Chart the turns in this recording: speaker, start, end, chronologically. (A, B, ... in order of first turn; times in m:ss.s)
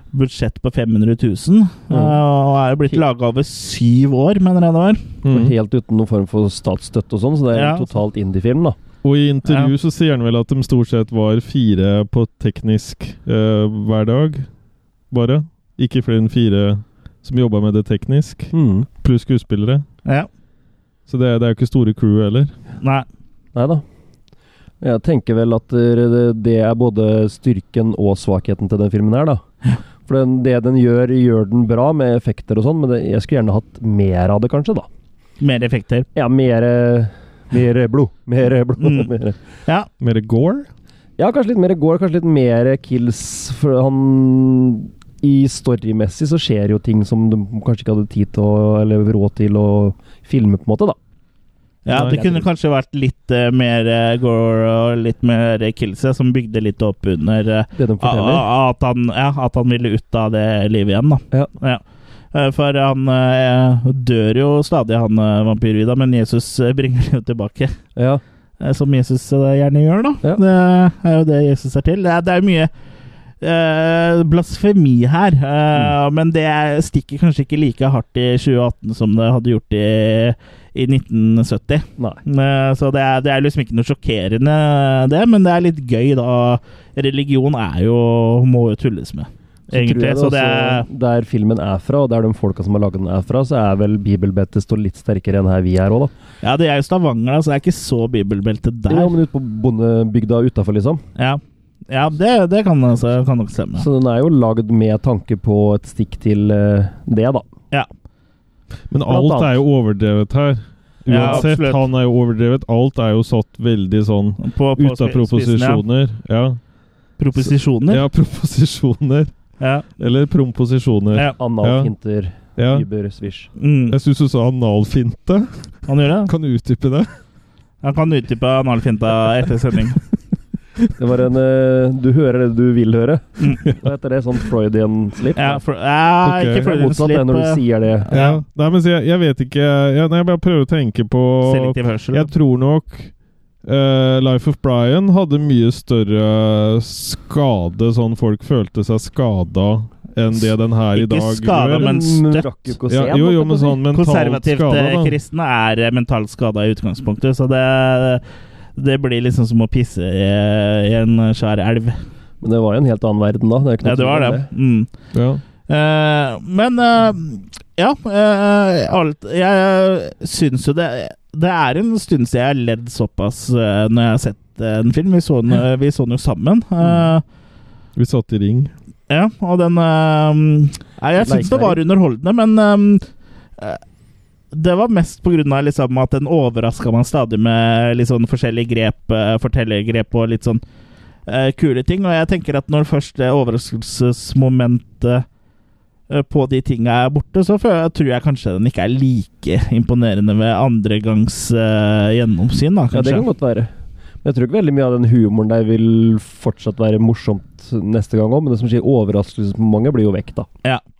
0:00.1-0:05.0 A
0:01.9-0:02.2 B
0:05.2-0:05.5 C
0:05.2-0:08.8 B
0:07.5-0:07.9 A
0:09.0-0:14.5 C
0:09.5-0:09.7 A
0:15.1-0:19.8 C
0:18.5-0:18.9 B
0:21.1-0:22.5 C
0:23.5-0:23.8 B
0:24.8-0:29.4 B
0:30.0-0:34.9 B
0:35.4-0:36.1 A
0:36.1-0:39.4 B
0:38.8-0:39.1 A
0:40.0-0:40.7 C
0:41.2-0:51.0 B
0:51.8-1:01.8 A
0:51.9-0:52.4 B
0:57.7-0:58.4 B
1:02.3-1:07.7 A
1:08.0-1:08.2 B
1:08.6-1:12.7 A
1:13.4-1:30.9 A
1:29.7-1:36.1 B
1:36.4-1:39.2 A
1:38.9-1:41.0 B
1:41.2-1:43.9 A
1:43.8-1:47.5 B
1:48.9-1:56.6 C
1:49.1-1:49.6 B
1:51.1-1:51.8 A
1:51.2-1:51.4 B
1:54.4-1:55.8 A
1:57.2-1:58.0 A
1:57.4-1:59.3 C
1:59.6-1:59.8 A
2:00.0-2:01.9 C
2:01.4-2:03.5 B
2:02.6-2:02.8 C
2:03.6-2:04.0 A
2:03.9-2:05.5 C
2:05.9-2:06.3 A
2:06.2-2:07.1 C
2:07.8-2:10.0 A
2:11.0-2:15.6 B
2:13.4-2:13.7 A
2:15.4-2:18.4 A
2:16.2-2:16.7 C
2:16.6-2:18.1 B
2:18.1-2:23.1 C
2:21.4-2:22.3 A
2:23.6-2:32.0 C
2:30.4-2:32.5 A
2:31.7-2:33.8 B
2:32.9-2:35.2 C
2:33.9-2:38.2 A
2:38.8-2:42.0 A
2:42.4-2:44.5 B
2:43.8-2:44.9 A
2:45.1-2:45.4 C
2:45.7-2:57.2 A
2:58.0-2:58.7 C
2:59.1-3:03.1 A
3:01.2-3:01.8 B
3:04.5-3:10.6 A
3:11.2-3:15.2 A
3:16.1-3:23.3 A
3:22.9-3:30.5 B